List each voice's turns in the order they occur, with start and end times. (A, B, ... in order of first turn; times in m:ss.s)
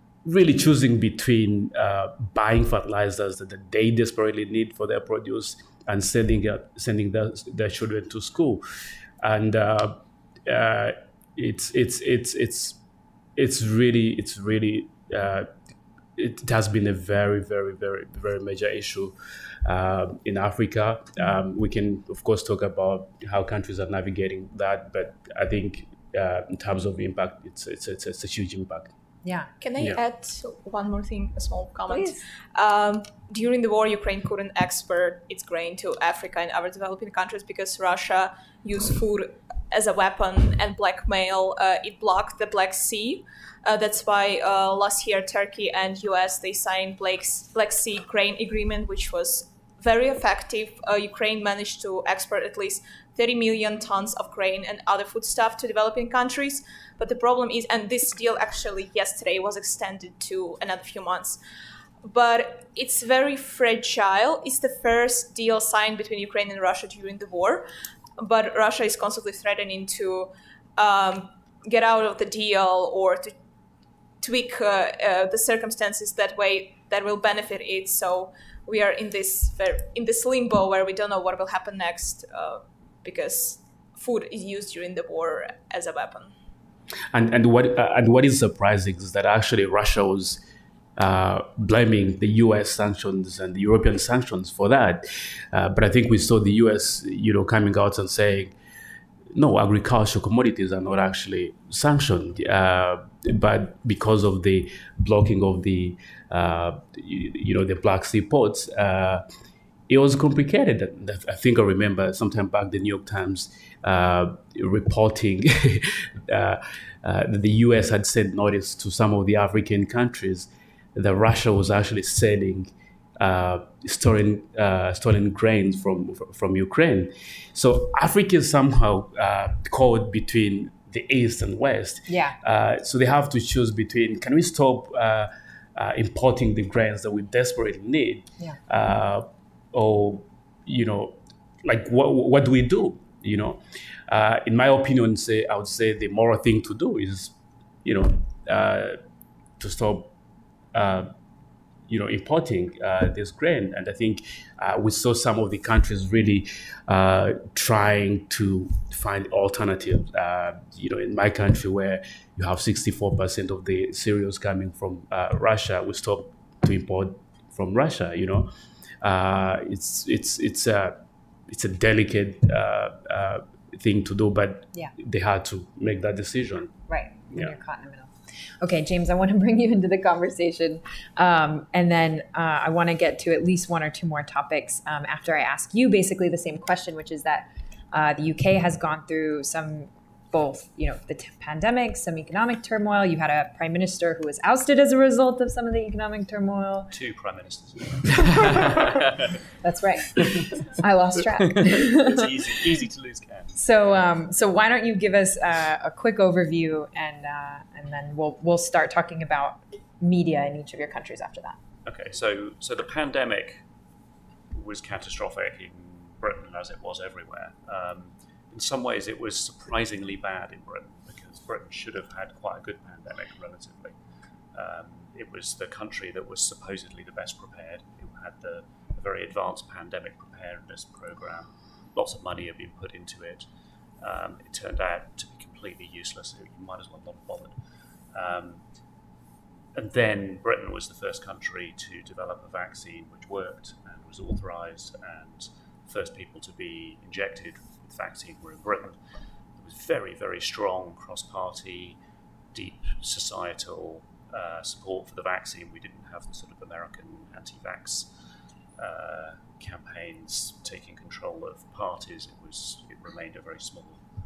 0:00.2-0:08.6 A
0:09.2-0:12.8 A
0:13.4-0:15.5 A
0:16.2-0:28.9 A
0:29.2-0:29.5 B
0:29.6-1:01.4 C
0:31.9-0:32.2 B
1:02.0-1:07.6 C
1:08.2-1:13.3 C
1:14.2-1:26.3 C
1:27.1-1:30.4 A
1:31.0-1:38.5 A
1:39.3-1:49.2 A
1:49.9-2:29.0 A
2:12.1-2:12.4 B
2:29.6-2:30.1 A
2:30.7-2:31.1 A
2:31.9-2:56.8 A
2:56.9-3:16.9 B
2:57.3-2:57.5 A
3:16.9-3:19.3 D
3:19.6-3:20.2 B
3:20.1-3:20.6 D
3:20.8-3:22.3 B
3:21.1-3:23.6 D
3:23.6-3:31.6 B
3:31.8-3:33.6 D
3:34.5-3:44.0 D
3:44.5-3:53.5 D
3:54.0-3:57.6 D
3:58.1-3:58.6 D
3:59.7-4:09.0 D
4:09.6-4:12.0 D
4:12.5-4:18.1 D
4:18.8-4:24.0 D